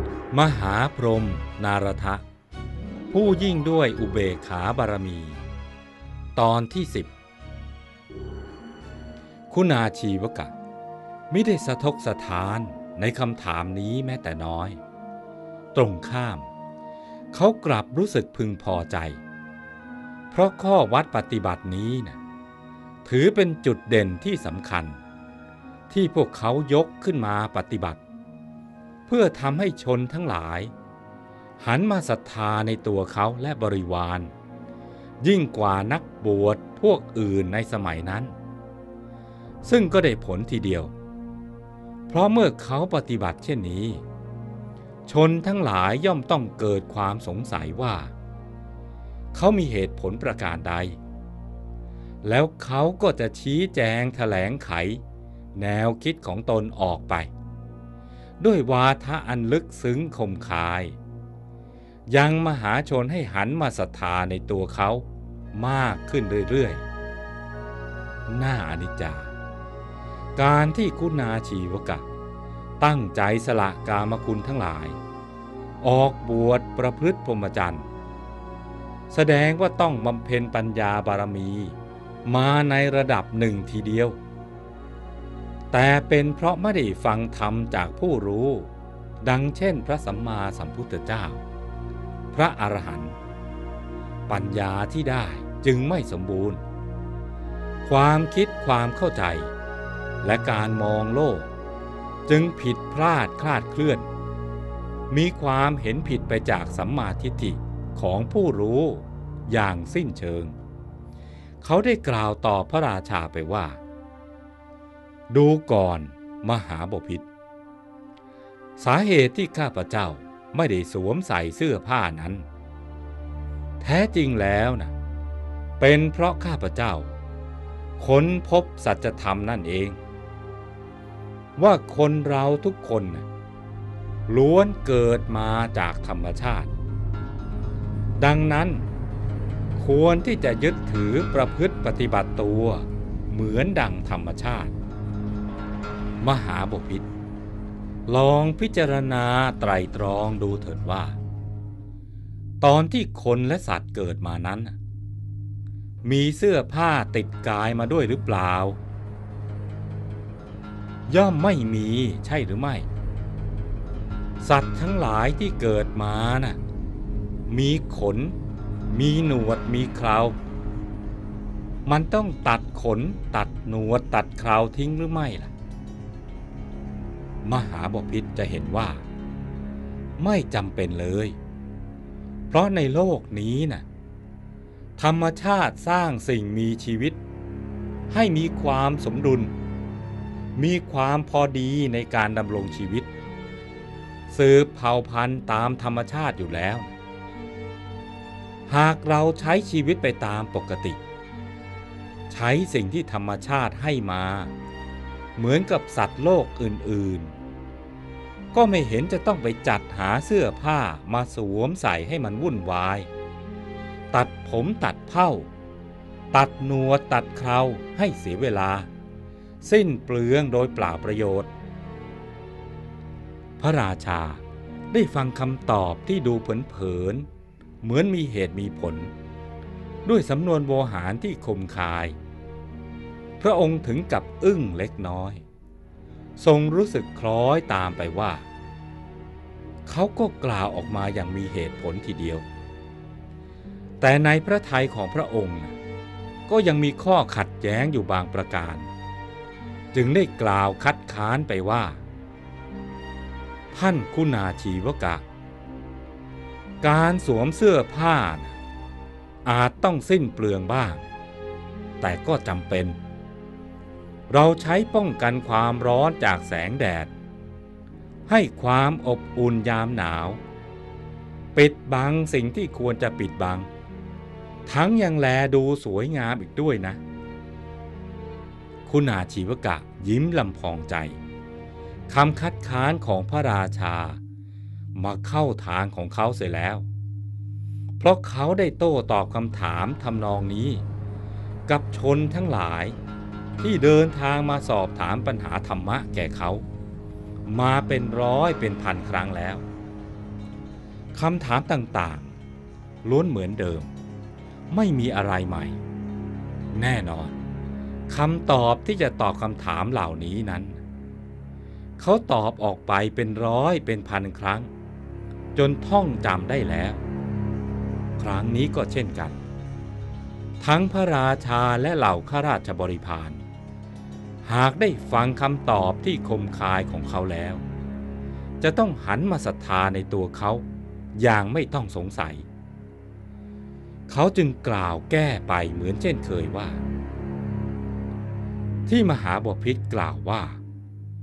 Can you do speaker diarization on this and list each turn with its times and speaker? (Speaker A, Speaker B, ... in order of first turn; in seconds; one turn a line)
Speaker A: 0.3-2.2
Speaker A: 3.1-5.4
Speaker A: 6.3-7.1
Speaker A: 9.5-10.5
Speaker A: 11.3-14.8
Speaker A: 15.7-16.5
Speaker A: 17.3-19.2
Speaker A: 20.3-22.2
Speaker A: 23.0-25.0
Speaker A: 25.9-28.0
Speaker A: 29.1-30.7
Speaker A: 31.6-34.3
Speaker A: 35.2-38.3
Speaker A: 39.6-40.9
Speaker A: 42.1-44.0
Speaker A: 45.1-48.1
Speaker A: 49.3-51.0
Speaker A: 52.2-55.0
Speaker A: 55.5-57.3
Speaker A: 58.4-61.0
Speaker A: 62.1-66.8
Speaker A: 68.3-69.3
Speaker A: 70.4-72.0
Speaker A: 72.8-75.0
Speaker A: 75.8-77.9
Speaker A: 79.1-84.2
Speaker A: 85.7-88.7
Speaker A: 89.2-91.4
Speaker A: 92.3-93.2
Speaker A: 94.3-96.6
Speaker A: 97.9-99.5
Speaker A: 100.2-101.5
Speaker A: 102.3-104.1
Speaker A: 105.1-110.5
Speaker A: 111.6-113.8
Speaker A: 115.3-117.2
Speaker A: 118.8-122.5
Speaker A: 123.8-124.9
Speaker A: 125.8-127.2
Speaker A: 128.0-130.0
Speaker A: 131.6-133.2
Speaker A: 134.3-136.7
Speaker A: 138.2-138.9
Speaker A: 139.8-144.7
Speaker A: 146.2-147.1
Speaker A: 148.1-151.2
Speaker A: 152.6-154.8
Speaker A: 156.0-158.8
Speaker A: 161.1-162.9
Speaker A: 164.4-166.6
Speaker A: 167.5-168.3
Speaker A: 168.9-170.4
Speaker A: 171.8-175.5
Speaker A: 177.4-179.0
Speaker A: 180.2-181.4
Speaker A: 182.5-183.8
Speaker A: 185.0-187.2
Speaker A: 188.1-189.5
Speaker A: 190.6-193.1
Speaker A: 194.3-196.9
Speaker A: 198.7-201.0
Speaker A: 202.3-204.5
Speaker A: 205.4-207.3
Speaker A: 208.5-213.1
Speaker A: 214.1-215.5
Speaker A: 216.3-218.9
Speaker A: 219.6-221.5
Speaker A: 223.6-227.3
Speaker A: 227.8-229.1
Speaker A: 230.0-232.2
Speaker A: 233.4-235.4
Speaker A: 236.4-238.5
Speaker A: 239.8-242.4
Speaker A: 244.0-245.8
Speaker A: 246.5-248.9
Speaker A: 249.9-252.0
Speaker A: 253.7-255.2
Speaker A: 256.8-258.6
Speaker A: 259.4-261.1
Speaker A: 262.0-263.0
Speaker A: 264.3-267.1
Speaker A: 268.3-270.4
Speaker A: 271.6-273.7
Speaker A: 274.6-277.0
Speaker A: 278.9-281.2
Speaker A: 282.1-284.2
Speaker A: 284.9-286.9
Speaker A: 288.0-290.8
Speaker A: 291.7-292.9
Speaker A: 293.6-296.6
Speaker A: 297.4-299.6
Speaker A: 301.1-302.3
Speaker A: 303.0-303.9
Speaker A: 304.7-305.8
Speaker A: 306.7-307.3
Speaker A: 308.1-310.8
Speaker A: 312.0-314.7
Speaker A: 315.6-317.0
Speaker A: 318.2-319.4
Speaker A: 320.6-323.4
Speaker A: 324.4-327.6
Speaker A: 328.6-330.6
Speaker A: 331.1-332.4
Speaker A: 334.1-336.8
Speaker A: 338.9-340.6